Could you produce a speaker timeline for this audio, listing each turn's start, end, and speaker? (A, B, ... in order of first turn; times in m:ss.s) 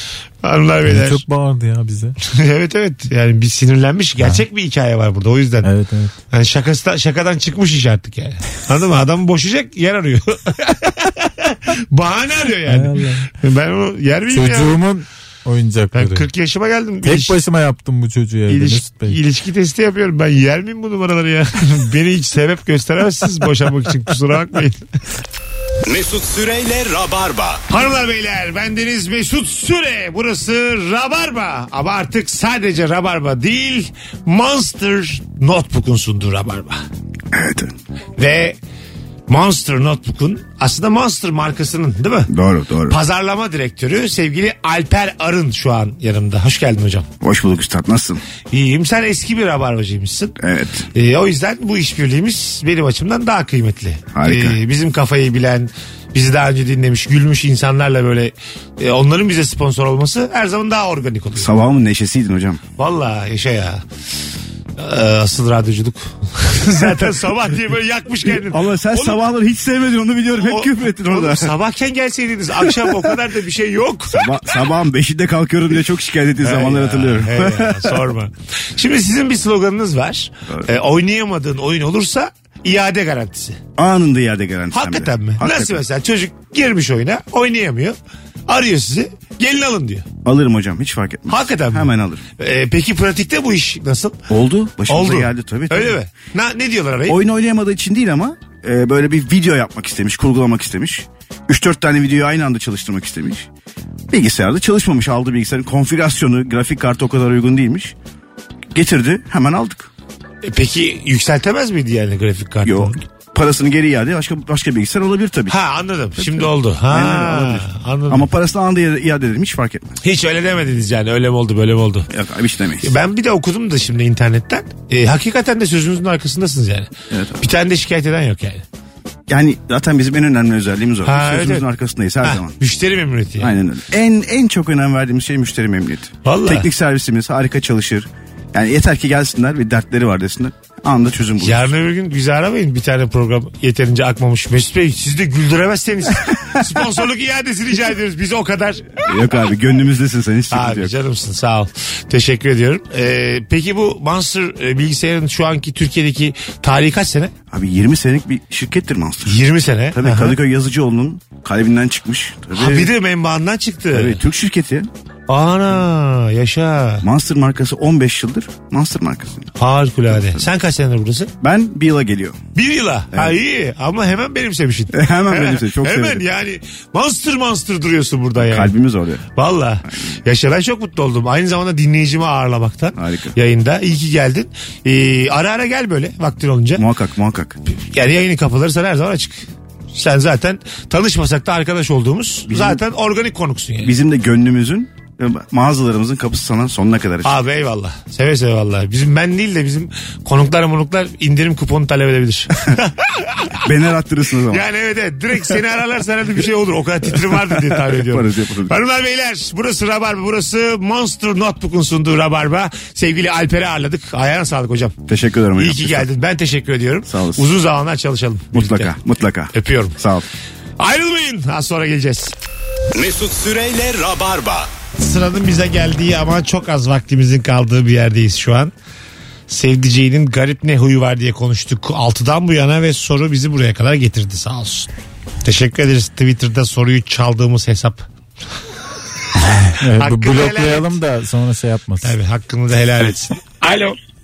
0:00.4-0:01.2 A
0:00.8-0:02.1 B
0:02.2-0:05.7 A
0:05.6-0:06.1 B
0:06.3-0:14.8 A
0:12.7-0:13.3 B
0:14.3-0:16.2 B
0:15.9-0:17.4 A
0:17.0-0:19.2 B
0:18.5-0:24.8 A
0:25.8-0:27.6 C
0:27.7-0:36.8 A
0:37.3-0:37.7 D
0:38.2-0:38.6 A
0:39.3-0:42.3 A
0:42.3-0:43.0 D
0:42.9-0:47.1 A
0:47.2-0:48.2 D
0:48.5-0:50.3 A
0:50.4-0:50.9 D
0:50.9-1:01.5 A
0:54.1-0:54.6 D
1:01.4-1:02.6 D
1:02.8-1:03.8 A
1:04.8-1:09.2 A
1:08.3-1:11.5 D
1:10.4-1:14.4 A
1:14.1-1:18.0 D
1:16.4-1:23.6 A
1:23.8-1:25.8 D
1:24.7-1:28.0 A
1:28.5-1:30.1 A
1:30.2-1:32.2 D
1:31.3-1:34.2 A
1:34.3-1:36.0 D
1:34.9-1:37.2 A
1:37.0-1:43.5 D
1:44.1-1:47.9 D
1:48.7-1:49.9 D
1:50.4-1:53.0 A
1:52.6-1:55.6 D
1:55.5-1:58.3 A
1:56.2-1:59.9 D
2:00.0-2:02.1 A
2:02.1-2:02.9 D
2:02.8-2:06.9 A
2:07.1-2:07.4 D
2:07.4-2:08.6 A
2:09.3-2:12.5 D
2:11.0-2:11.6 A
2:12.2-2:13.5 A
2:13.4-2:21.6 D
2:16.2-2:16.6 A
2:21.4-2:28.9 A
2:29.0-2:30.9 D
2:30.5-2:37.3 A
2:37.5-2:39.4 D
2:39.2-2:40.4 A
2:39.9-2:42.9 D
2:42.5-2:44.2 A
2:43.9-2:44.9 D
2:45.3-2:47.0 A
2:47.0-2:49.5 D
2:49.6-2:51.3 A
2:50.1-2:50.4 D
2:51.4-2:52.4 D
2:52.5-2:58.7 A
2:54.9-2:56.2 D
2:58.4-2:59.2 D
2:59.4-3:06.8 A
3:03.0-3:03.4 D
3:06.8-3:07.6 D
3:07.9-3:13.9 A
3:12.5-3:12.8 D
3:13.8-3:17.4 D
3:17.2-3:23.6 A
3:23.6-3:24.6 D
3:24.5-3:34.9 A
3:27.9-3:28.7 D
3:35.1-3:36.0 D
3:35.6-3:38.9 A
3:37.1-3:37.5 D
3:38.5-3:40.3 D
3:39.5-3:39.9 A
3:40.8-3:42.3 A
3:42.9-3:44.7 C
3:45.0-3:48.7 A
3:49.5-3:54.9 A
3:55.4-3:58.0 A
3:59.5-4:02.2 B
4:00.0-4:01.0 A
4:02.0-4:04.0 A